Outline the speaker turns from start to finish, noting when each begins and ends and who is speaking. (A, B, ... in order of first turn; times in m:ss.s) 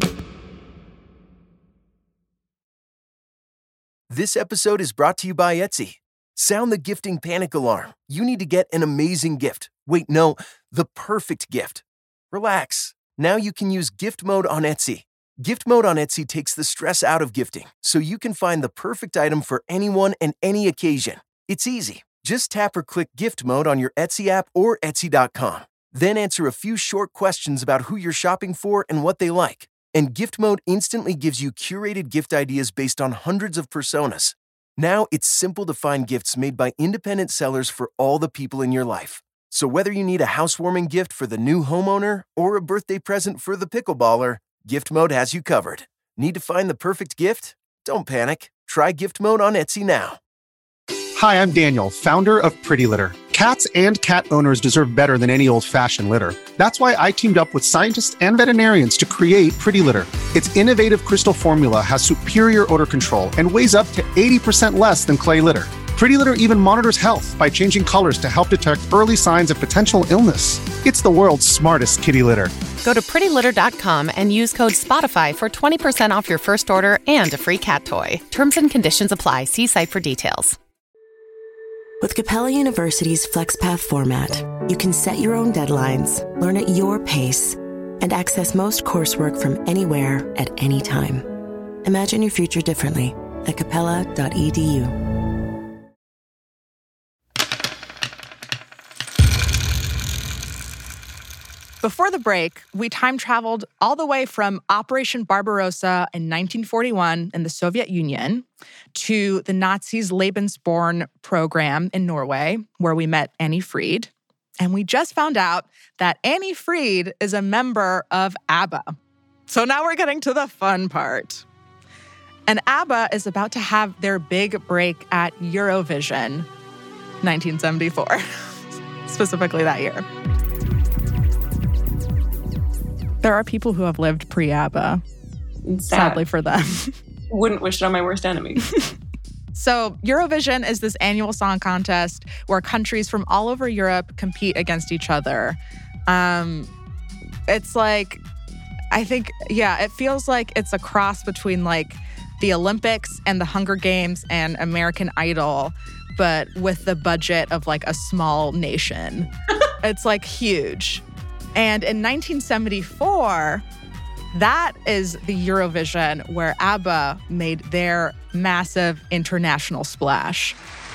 0:04.1-0:50.2 A
0:51.2-1:12.5 B
1:12.8-1:20.6 C
1:22.0-1:31.3 D
1:31.8-1:35.0 D
1:41.8-1:59.0 E
1:59.5-2:01.4 E
2:02.5-2:06.5 E
2:07.2-2:08.2 E
2:09.0-2:10.0 E
2:13.2-2:15.0 E
2:15.6-2:16.2 F
2:15.9-2:16.9 E
2:17.3-2:18.6 F
2:19.5-2:26.7 E
2:27.5-2:28.2 E
2:28.9-2:39.3 E
2:39.8-2:41.0 E
2:41.5-2:43.6 E
2:44.3-2:50.6 E